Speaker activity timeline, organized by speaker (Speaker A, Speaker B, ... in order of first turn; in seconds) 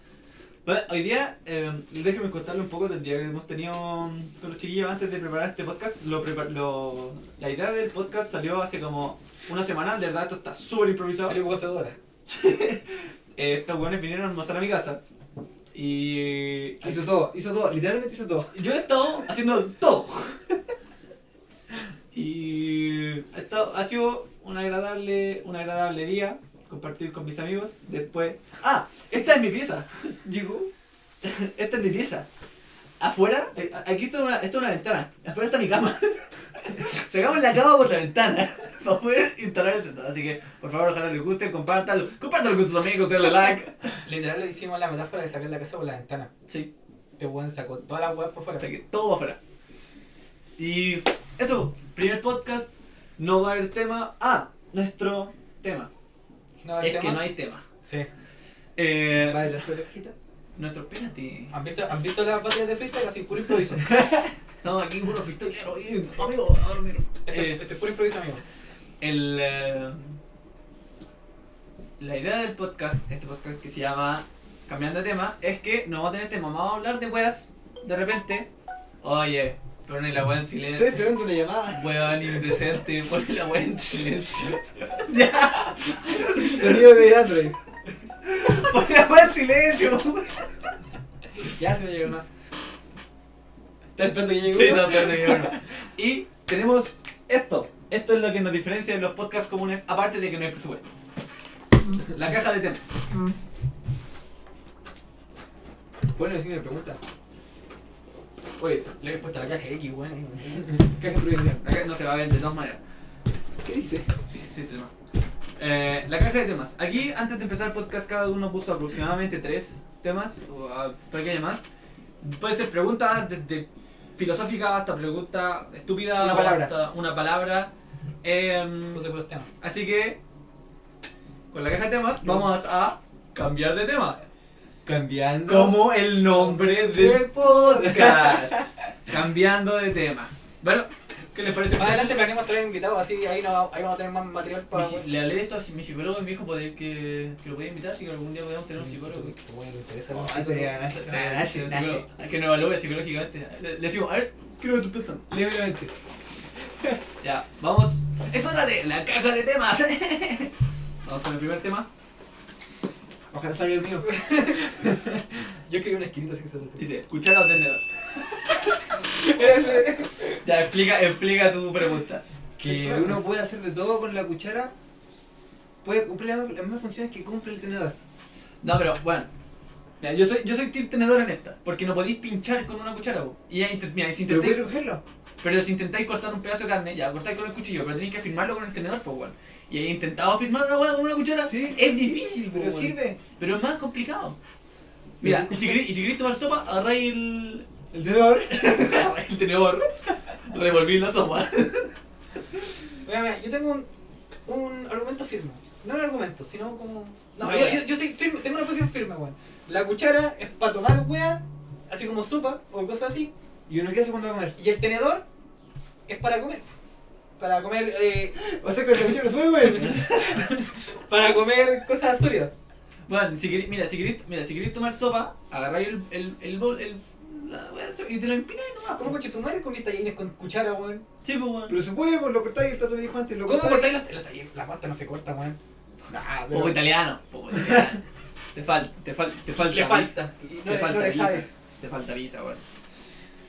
Speaker A: 0.7-11.4, 12.3-15.0, 15.7-17.1, 18.5-20.5, 22.1-30.1, 31.2-32.3, 33.0-44.0, 48.6-49.4, 50.6-55.9, 56.8-57.6, 58.8-59.6, 60.5-61.5, 64.6-67.6, 69.0-70.2, 72.0-78.5, 79.0-81.2, 81.7-86.8, 88.3-90.5, 94.5-100.8, 102.1-102.8, 108.6-109.0, 111.0-112.8, 114.3-114.9, 115.6-121.6, 122.2-123.7, 124.2-127.7, 128.2-129.0, 129.6-130.2, 131.5-134.2, 135.5-142.3, 144.7-149.3, 150.7-155.3, 157.2-160.5, 161.0-161.9, 166.8-167.9, 170.3-173.3, 178.6-179.3, 180.0-184.6, 185.4-194.4, 195.2-201.9, 207.4-207.8, 219.7-220.3, 223.1-229.2, 231.2-231.8, 236.5-238.0, 238.5-242.6
Speaker B: 11.2-12.0, 44.0-46.3, 47.2-48.7, 56.6-57.2, 57.8-58.1, 61.5-63.9, 67.3-68.4, 109.0-110.8, 128.9-129.5, 141.7-145.1, 148.8-150.7, 164.0-164.8, 165.7-166.9, 169.1-170.3, 203.1-203.9, 204.5-213.3, 214.6-215.2, 216.1-216.6, 217.4-218.4, 219.8-222.5, 228.9-231.0, 233.4-235.6, 239.6-241.5
Speaker C: 16.8-18.6, 30.2-30.7, 59.1-60.1, 80.7-82.6, 86.4-87.5, 91.5-92.2, 94.0-95.6, 106.2-107.0, 110.6-111.6, 113.6-114.1, 126.2-126.7, 134.8-135.8, 136.3-138.7, 150.1-152.1, 155.3-155.9, 163.3-165.2, 172.6-174.7, 175.8-177.9, 184.3-185.0, 191.3-193.2, 195.2-195.7, 197.9-198.7, 213.7-214.6, 218.3-220.1, 231.7-233.9, 236.1-236.8